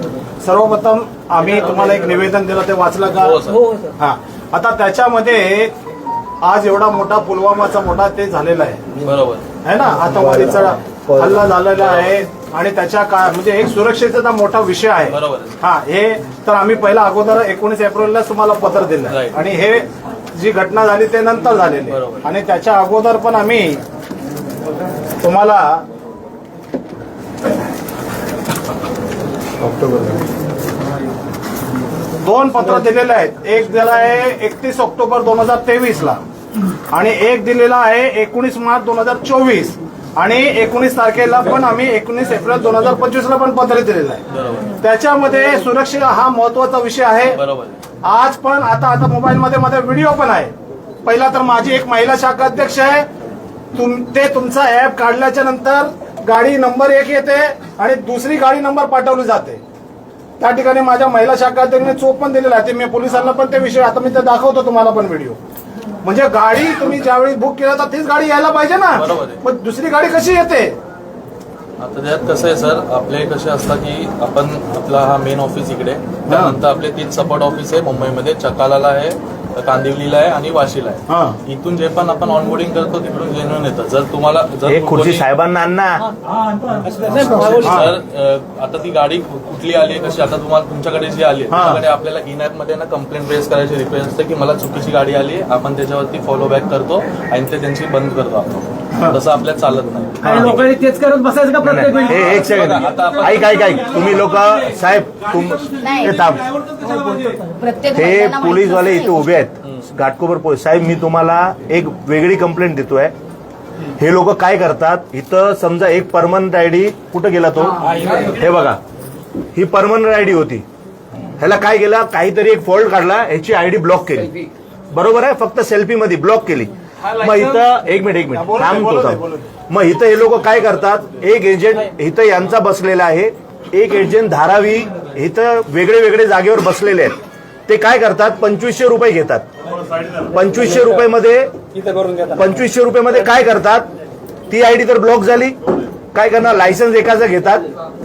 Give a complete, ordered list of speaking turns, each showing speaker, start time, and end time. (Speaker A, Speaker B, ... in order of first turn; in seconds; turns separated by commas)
Speaker A: 0.4-3.4, Speaker B: 3.2-3.7, Speaker A: 4.0-5.7, Speaker A: 6.4-8.8, Speaker B: 9.0-9.4, Speaker A: 9.6-23.8, Speaker B: 11.7-12.2, Speaker B: 15.1-15.6, Speaker B: 19.1-19.4, Speaker B: 21.9-22.3, Speaker A: 25.2-25.8, Speaker A: 29.6-30.1, Speaker A: 32.2-36.2, Speaker A: 36.9-44.2, Speaker B: 44.3-44.8, Speaker A: 44.8-47.4, Speaker B: 47.3-47.8, Speaker A: 48.0-50.5, Speaker A: 51.0-53.1, Speaker A: 53.7-59.6, Speaker A: 60.4-65.4, Speaker A: 66.0-70.8, Speaker B: 68.9-69.4, Speaker B: 71.8-85.2, Speaker A: 76.3-76.5, Speaker A: 81.1-81.4, Speaker C: 84.7-86.0, Speaker D: 86.8-87.5, Speaker B: 87.0-100.7, Speaker A: 87.5-87.9, Speaker A: 91.5-91.8, Speaker A: 100.2-101.5, Speaker C: 100.2-100.7, Speaker D: 100.8-102.0, Speaker C: 101.6-106.4, Speaker B: 102.0-104.0, Speaker E: 105.8-106.1, Speaker A: 106.3-107.4, Speaker D: 106.9-107.4, Speaker E: 107.5-109.2, Speaker C: 107.9-113.1, Speaker C: 114.0-118.8, Speaker D: 117.9-118.3, Speaker C: 119.5-120.6, Speaker C: 121.4-124.3, Speaker C: 124.9-137.2, Speaker A: 128.3-129.5, Speaker C: 137.7-139.4, Speaker C: 140.2-141.5, Speaker C: 142.3-143.9, Speaker C: 144.5-145.6, Speaker C: 146.1-147.7